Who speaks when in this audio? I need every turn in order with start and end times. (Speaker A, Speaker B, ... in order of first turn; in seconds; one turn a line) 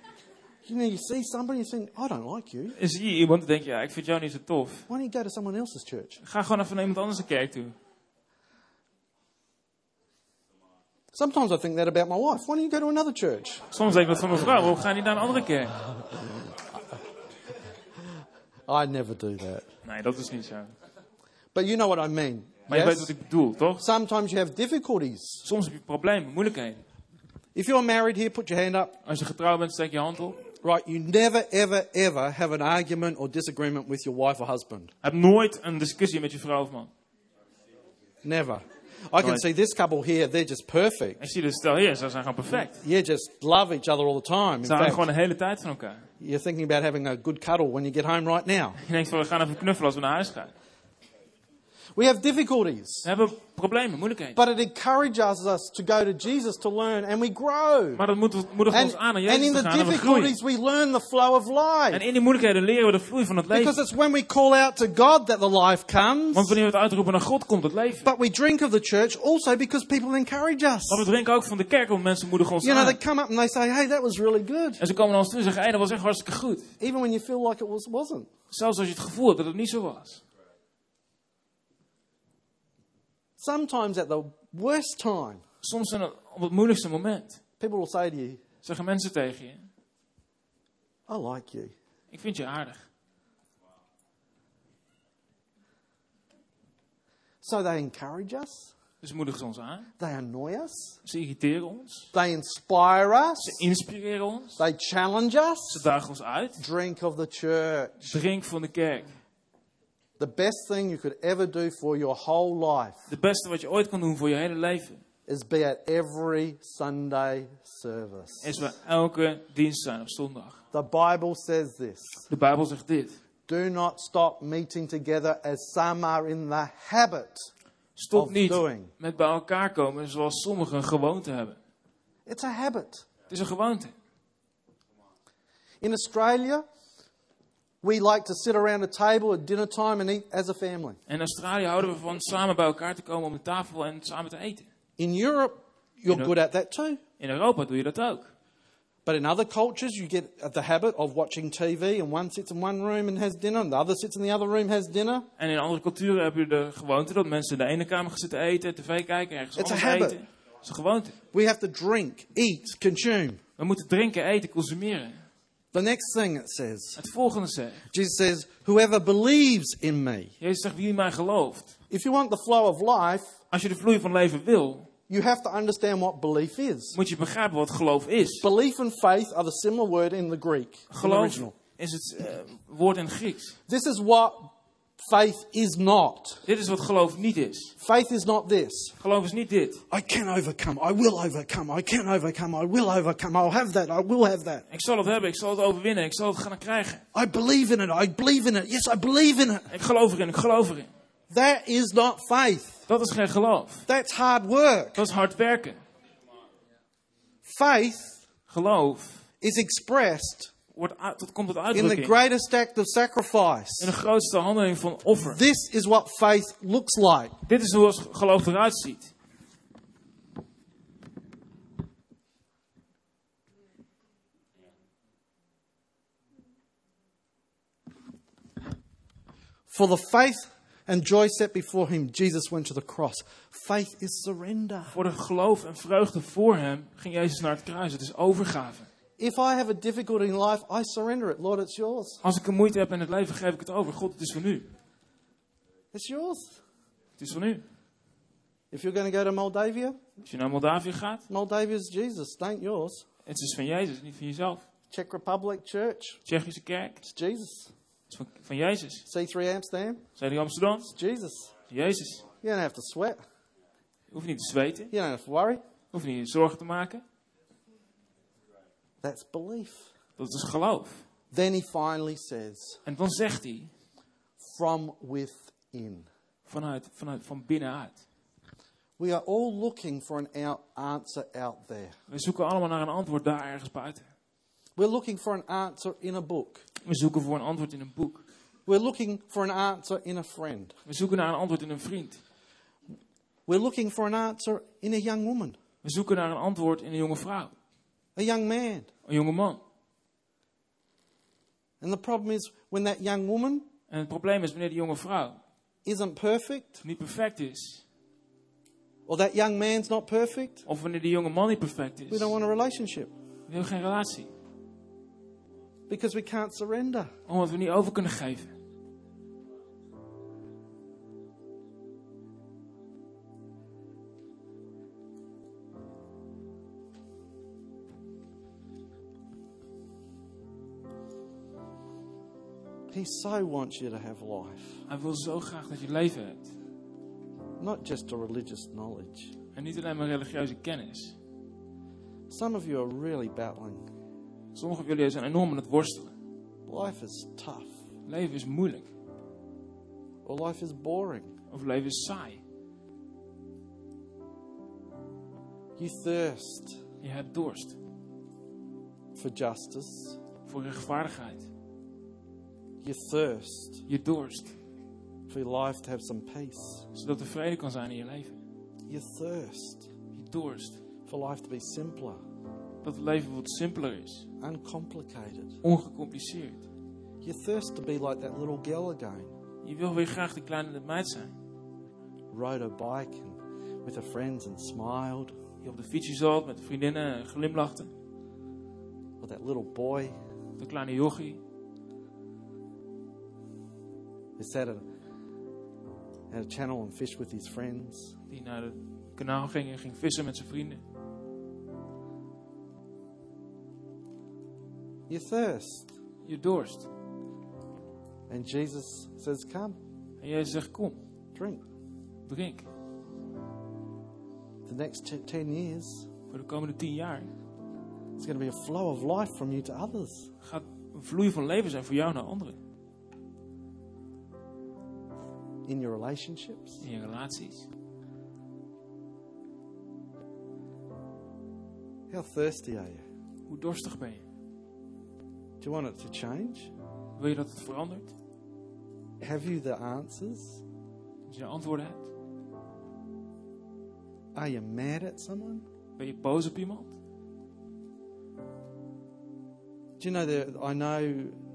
Speaker A: 0.7-2.8
Speaker B: 2.8-4.9
Speaker A: 4.9-6.2
Speaker B: 6.2-7.8
Speaker A: 11.1-13.7
Speaker B: 13.7-15.8
Speaker A: 18.7-19.7
Speaker B: 19.9-20.7
Speaker A: 21.5-23.1
Speaker B: 22.7-23.8
Speaker A: 23.8-25.4
Speaker B: 25.4-26.8
Speaker A: 27.6-29.0
Speaker B: 29.1-30.4
Speaker A: 30.6-34.9
Speaker B: 35.0-36.9
Speaker A: 38.2-41.2
Speaker B: 39.2-39.5
Speaker B: 41.2-42.8
Speaker A: 42.7-45.0
Speaker B: 44.6-46.0
Speaker A: 46.2-48.8
Speaker B: 48.8-50.5
Speaker A: 52.0-53.1
Speaker B: 53.0-54.4
Speaker A: 54.4-58.0
Speaker B: 58.0-60.4
Speaker A: 58.7-62.0
Speaker B: 61.9-63.8
Speaker A: 63.5-66.6
Speaker B: 66.3-68.1
Speaker A: 68.0-71.1
Speaker B: 70.9-73.0
Speaker A: 72.6-74.8
Speaker B: 74.8-76.7
Speaker A: 76.8-78.3
Speaker B: 78.5-80.2
Speaker A: 83.4-85.4
Speaker B: 85.6-87.4
Speaker A: 87.6-88.4
Speaker B: 88.6-89.7
Speaker A: 91.1-91.7
Speaker B: 92.1-92.8
Speaker A: 97.4-98.7
Speaker B: 99.0-99.9
Speaker A: 100.0-101.0
Speaker B: 101.0-102.1
Speaker A: 102.1-103.6
Speaker B: 103.4-104.6
Speaker A: 104.6-105.9
Speaker B: 105.7-106.6
Speaker A: 106.6-108.2
Speaker B: 108.0-109.1
Speaker A: 110.2-113.1
Speaker B: 113.1-115.0
Speaker A: 115.3-118.5
Speaker B: 118.4-120.6
Speaker A: 120.7-122.3
Speaker B: 122.3-123.2
Speaker A: 123.5-127.5
Speaker B: 128.0-131.6
Speaker A: 128.1-128.9
Speaker A: 132.3-133.1
Speaker B: 133.3-133.9
Speaker A: 135.8-136.7
Speaker A: 137.8-141.0
Speaker B: 141.1-144.7
Speaker A: 145.0-147.0
Speaker B: 147.2-148.3
Speaker A: 149.1-155.3
Speaker B: 155.4-161.2
Speaker A: 159.6-160.2
Speaker A: 161.3-163.4
Speaker B: 163.6-165.2
Speaker A: 165.7-167.0
Speaker B: 167.0-167.8
Speaker A: 167.9-170.3
Speaker B: 170.4-171.8
Speaker A: 171.9-173.4
Speaker B: 173.5-174.9
Speaker A: 175.1-177.0
Speaker B: 176.9-178.5
Speaker A: 178.4-181.6
Speaker B: 180.9-183.6
Speaker A: 183.7-186.5
Speaker B: 186.5-187.7
Speaker A: 187.8-188.9
Speaker B: 189.0-189.8
Speaker A: 189.9-194.7
Speaker B: 194.7-197.0
Speaker A: 197.1-199.7
Speaker B: 199.7-200.9
Speaker A: 201.3-202.9
Speaker B: 202.9-203.9
Speaker A: 203.9-205.0
Speaker B: 205.0-205.8
Speaker A: 207.4-208.2
Speaker B: 208.5-209.2
Speaker A: 209.4-210.5
Speaker B: 210.7-212.2
Speaker A: 211.7-213.9
Speaker B: 213.8-215.4
Speaker A: 215.3-217.4
Speaker B: 217.5-219.1
Speaker A: 229.7-235.0
Speaker B: 234.9-238.9
Speaker A: 239.2-242.2
Speaker B: 242.2-244.7
Speaker A: 245.9-246.6
Speaker B: 247.2-247.7
Speaker A: 248.7-250.0
Speaker B: 250.2-251.2
Speaker A: 251.3-253.1
Speaker B: 253.3-254.6
Speaker A: 254.9-256.2
Speaker B: 256.3-257.0
Speaker A: 257.0-257.7
Speaker B: 258.1-259.1
Speaker A: 259.1-260.1
Speaker B: 260.2-260.9
Speaker A: 260.9-261.5
Speaker B: 261.7-262.2
Speaker A: 262.4-263.2
Speaker B: 264.1-264.9
Speaker A: 264.9-265.6
Speaker B: 265.9-267.0
Speaker A: 269.0-269.9
Speaker B: 270.2-271.0
Speaker A: 271.3-272.8
Speaker B: 272.9-273.7
Speaker A: 274.4-276.1
Speaker B: 276.5-278.0
Speaker A: 279.0-282.0
Speaker B: 282.1-284.1
Speaker A: 284.8-286.6
Speaker B: 286.9-288.2
Speaker A: 288.7-290.8
Speaker B: 290.9-292.2
Speaker A: 293.5-295.6
Speaker B: 295.8-297.5
Speaker A: 298.2-298.9
Speaker B: 299.1-299.6
Speaker A: 301.8-303.7
Speaker B: 303.9-305.4
Speaker A: 305.9-306.8
Speaker B: 306.8-307.8
Speaker A: 309.1-310.6
Speaker B: 310.7-312.4
Speaker A: 312.1-313.1
Speaker B: 313.5-314.3
Speaker A: 315.9-317.1
Speaker B: 317.3-318.5
Speaker A: 332.9-334.9
Speaker B: 334.9-336.5
Speaker A: 337.6-339.3
Speaker B: 339.6-341.2
Speaker A: 342.3-343.9
Speaker B: 344.5-346.1
Speaker A: 346.7-347.8
Speaker B: 348.1-348.9
Speaker A: 350.2-351.3
Speaker B: 351.5-352.4
Speaker A: 355.8-356.8
Speaker B: 357.0-357.8
Speaker A: 359.1-360.2
Speaker B: 360.5-361.5
Speaker A: 362.8-363.9
Speaker B: 363.9-364.6
Speaker A: 365.3-366.9
Speaker B: 366.9-368.4
Speaker A: 368.9-369.9
Speaker B: 370.1-370.8
Speaker A: 371.1-372.2
Speaker B: 372.8-374.3
Speaker A: 374.4-375.6
Speaker B: 375.6-376.6
Speaker A: 377.2-379.3
Speaker B: 379.6-381.4
Speaker A: 382.3-385.4
Speaker B: 385.6-387.9
Speaker A: 389.2-390.2
Speaker B: 390.6-391.4
Speaker A: 394.4-394.9
Speaker A: 396.3-398.2
Speaker B: 398.3-400.8
Speaker A: 405.1-405.9
Speaker B: 406.2-406.9
Speaker A: 408.3-409.8
Speaker B: 410.2-411.0
Speaker A: 411.4-411.6
Speaker B: 412.2-412.7
Speaker A: 414.7-416.1
Speaker B: 416.3-417.3
Speaker A: 418.2-420.3
Speaker B: 420.4-422.6
Speaker A: 425.7-426.8
Speaker B: 426.8-427.7
Speaker A: 432.1-433.0
Speaker B: 433.5-434.2
Speaker A: 435.6-436.7
Speaker B: 437.2-438.1
Speaker A: 439.2-440.6
Speaker B: 441.3-442.1
Speaker A: 444.4-445.6
Speaker B: 446.0-446.9
Speaker A: 450.0-451.4